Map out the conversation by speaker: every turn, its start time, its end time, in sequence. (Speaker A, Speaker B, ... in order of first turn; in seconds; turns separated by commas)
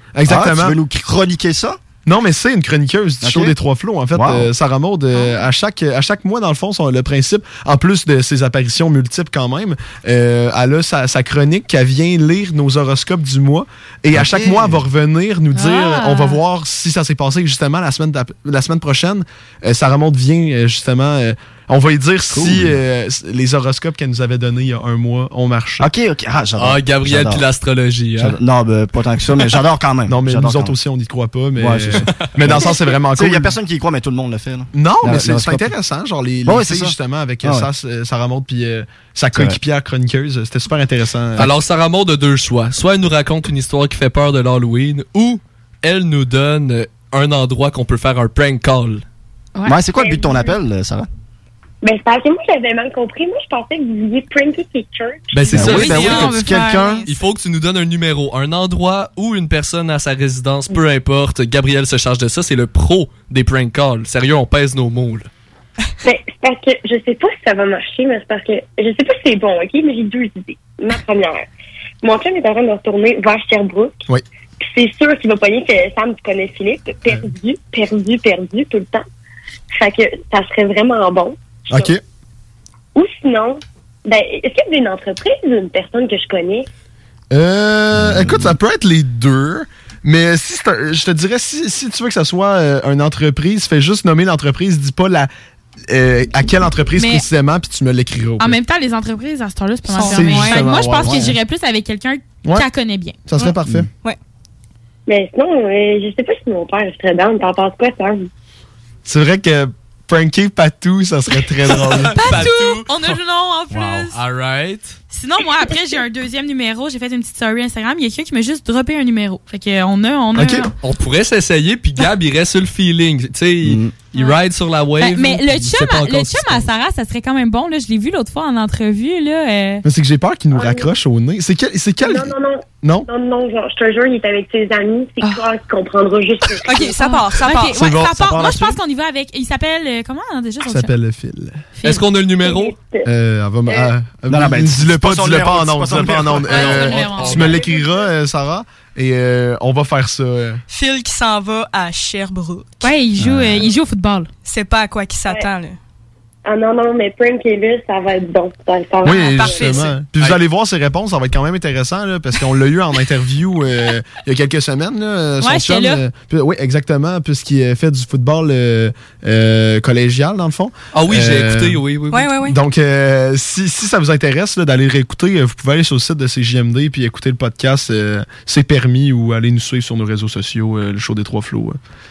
Speaker A: 0.1-0.8, Speaker B: 0.2-1.8, Speaker A: 2.0-25.9, Speaker B: 3.2-3.5, Speaker B: 4.1-4.5, Speaker B: 14.1-14.8, Speaker C: 15.5-16.4, Speaker B: 22.3-22.8, Speaker B: 25.8-27.4, Speaker D: 26.6-28.4, Speaker B: 28.2-30.8, Speaker A: 30.1-33.5, Speaker B: 31.6-35.7, Speaker A: 34.7-41.5, Speaker B: 36.4-37.7, Speaker D: 41.4-49.0, Speaker B: 49.6-51.1, Speaker E: 49.9-50.5, Speaker E: 51.8-55.4, Speaker D: 55.3-56.3, Speaker B: 55.4-57.1, Speaker C: 55.6-57.1, Speaker D: 57.1-65.3, Speaker E: 66.0-71.5, Speaker E: 72.0-74.0, Speaker E: 74.6-79.0, Speaker E: 79.8-81.9, Speaker A: 81.7-82.0, Speaker E: 82.9-86.7, Speaker A: 87.3-95.3, Speaker B: 87.9-88.5, Speaker A: 95.9-98.6, Speaker C: 97.0-97.2, Speaker C: 98.4-103.2, Speaker F: 99.9-100.7, Speaker A: 100.1-101.3, Speaker B: 101.0-101.3, Speaker A: 103.3-103.9, Speaker E: 105.1-108.3, Speaker A: 109.0-112.5, Speaker D: 111.7-112.9, Speaker C: 112.1-114.2, Speaker B: 113.7-114.1, Speaker D: 114.1-115.0, Speaker C: 115.1-120.7, Speaker B: 120.3-120.7, Speaker D: 120.8-126.7, Speaker B: 123.6-123.9, Speaker C: 125.0-129.8, Speaker A: 129.8-133.1, Speaker E: 130.5-130.9, Speaker E: 132.0-136.9, Speaker F: 136.6-137.8, Speaker C: 136.8-140.9, Speaker A: 137.7-138.2, Speaker B: 138.0-138.8, Speaker A: 140.6-141.6, Speaker C: 141.8-142.0, Speaker D: 141.8-142.8, Speaker E: 142.4-143.1, Speaker A: 143.1-150.6, Speaker B: 144.3-146.8, Speaker C: 146.5-148.1, Speaker D: 147.2-147.5, Speaker F: 150.7-152.9, Speaker C: 152.8-154.3, Speaker F: 154.4-155.8, Speaker E: 156.4-159.8, Speaker A: 159.0-171.8, Speaker D: 159.5-160.4, Speaker C: 165.4-166.0, Speaker D: 170.9-172.3, Speaker F: 172.1-172.6, Speaker A: 172.5-181.8